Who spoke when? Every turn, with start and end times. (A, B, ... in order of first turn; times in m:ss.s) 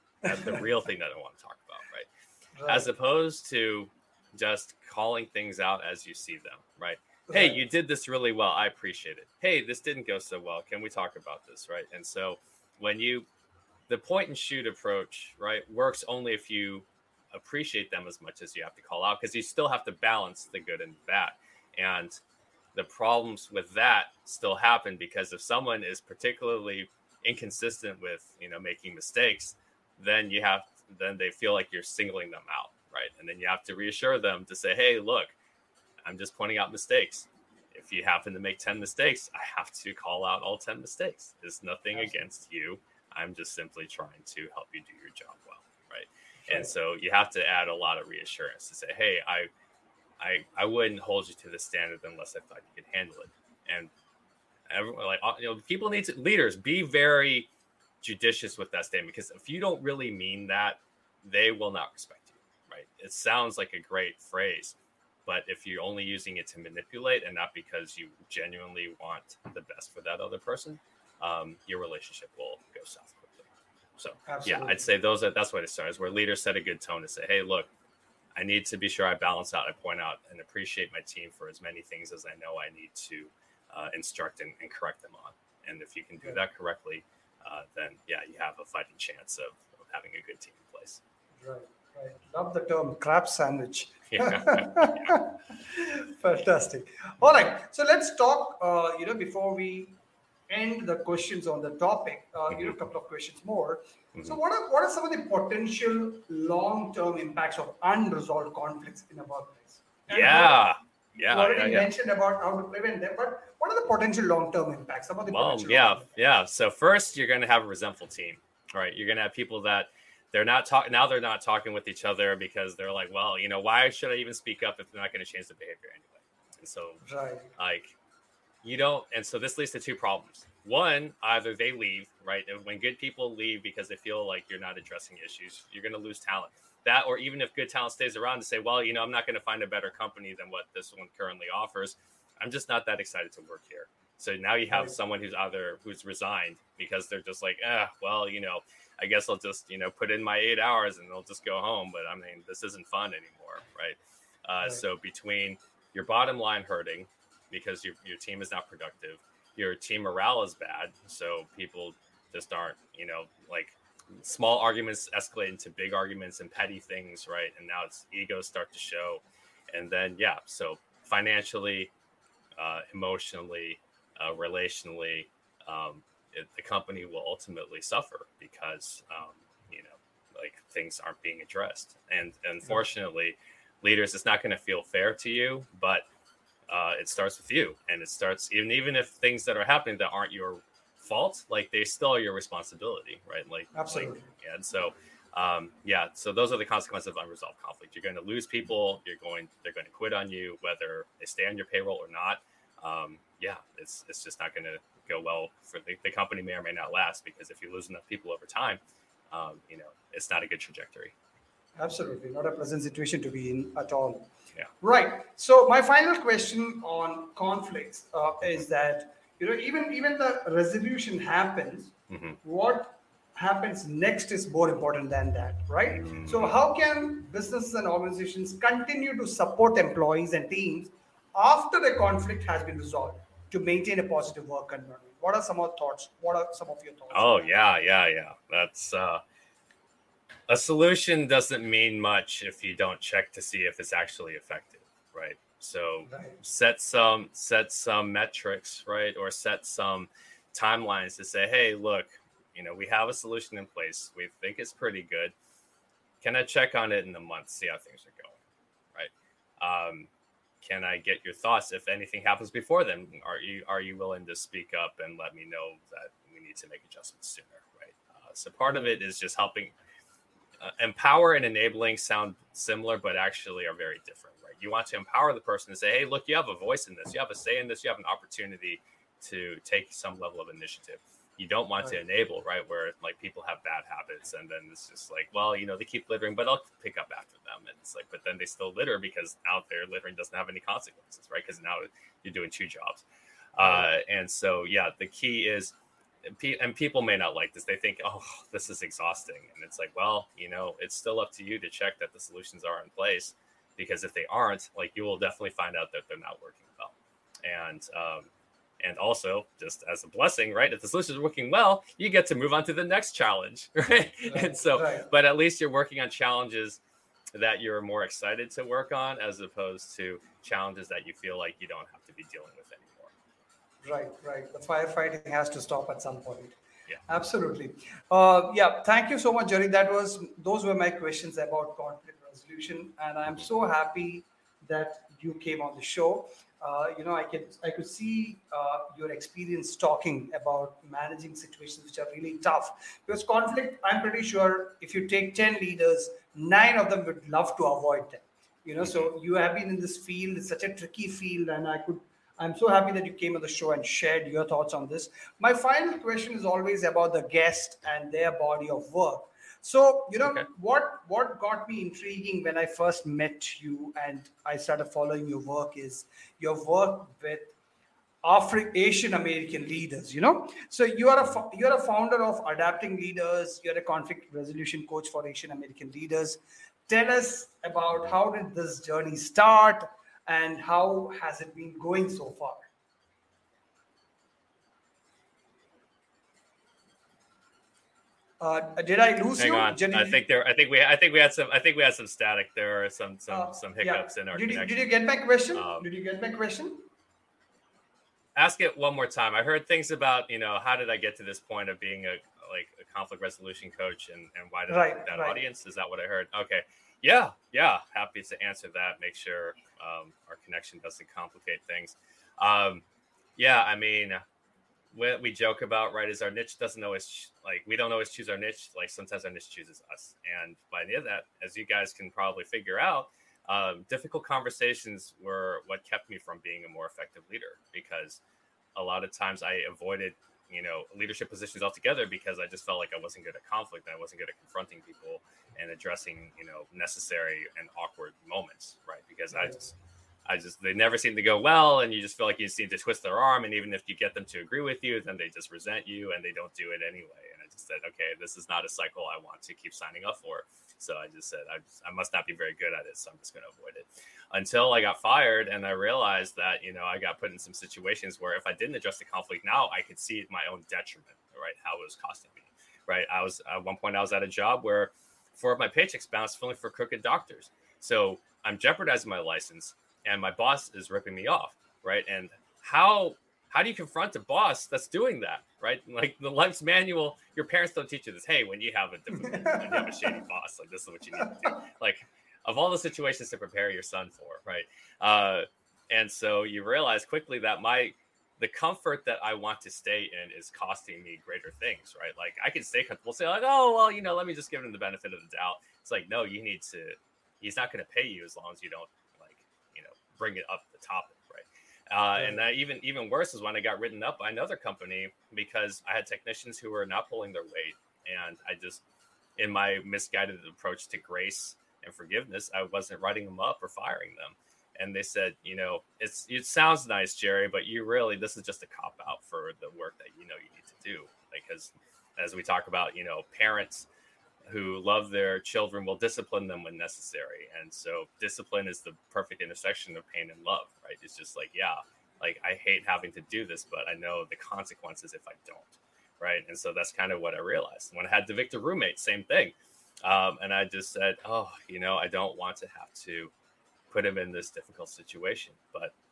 0:00.2-0:00.6 A
0:00.2-0:02.1 B
0:02.6-0:02.9 A
0:02.6-0:13.2 B
0:07.3-0:07.6 A
0:13.9-0:22.2 B
0:22.7-0:35.3 B
0:36.0-0:49.5 B
0:41.9-0:42.2 A
0:46.4-0:46.7 A
0:50.2-0:53.9 B
0:54.7-0:57.5 B
0:58.0-1:04.7 B
1:05.2-1:13.4 B
1:14.0-1:17.7 B
1:14.2-1:14.8 A
1:18.3-1:31.0 B
1:31.4-1:39.9 A
1:34.1-1:35.2 B
1:40.5-1:50.6 A
1:50.1-1:51.9 B
1:51.2-1:56.1 A
1:55.2-2:07.0 B
2:07.0-2:07.5 A
2:07.6-2:07.9 B
2:08.6-2:51.9 B
2:52.6-3:06.0 B
3:06.7-3:31.1 B
3:13.7-3:14.3 A
3:31.8-3:34.3 A
3:34.8-3:57.6 A
3:42.1-3:42.4 B
3:45.9-3:46.5 B
3:57.1-3:59.2 B
4:00.5-4:15.3 B
4:06.1-4:06.4 A
4:16.2-4:18.4 B
4:18.9-4:20.1 B
4:20.6-4:29.7 B
4:30.6-4:53.0 B
4:53.5-4:55.7 B
4:53.6-4:53.9 A
4:56.2-5:06.9 B
5:07.4-5:08.3 B
5:08.8-5:16.8 B
5:14.3-5:15.1 A
5:17.3-5:23.1 B
5:23.8-5:26.6 A
5:27.1-6:07.5 A
6:08.2-6:22.6 A
6:28.4-6:30.2 A
6:29.4-6:34.9 B
6:33.3-6:36.8 A
6:35.5-6:35.8 B
6:38.3-6:52.8 B
6:44.7-6:45.4 A
6:53.4-6:54.2 B
6:54.9-7:08.2 B
7:08.7-7:19.7 B
7:20.2-8:28.8 B
7:59.2-7:59.9 A
8:29.4-8:43.9 B
8:44.4-9:03.3 B
9:03.9-9:05.9 B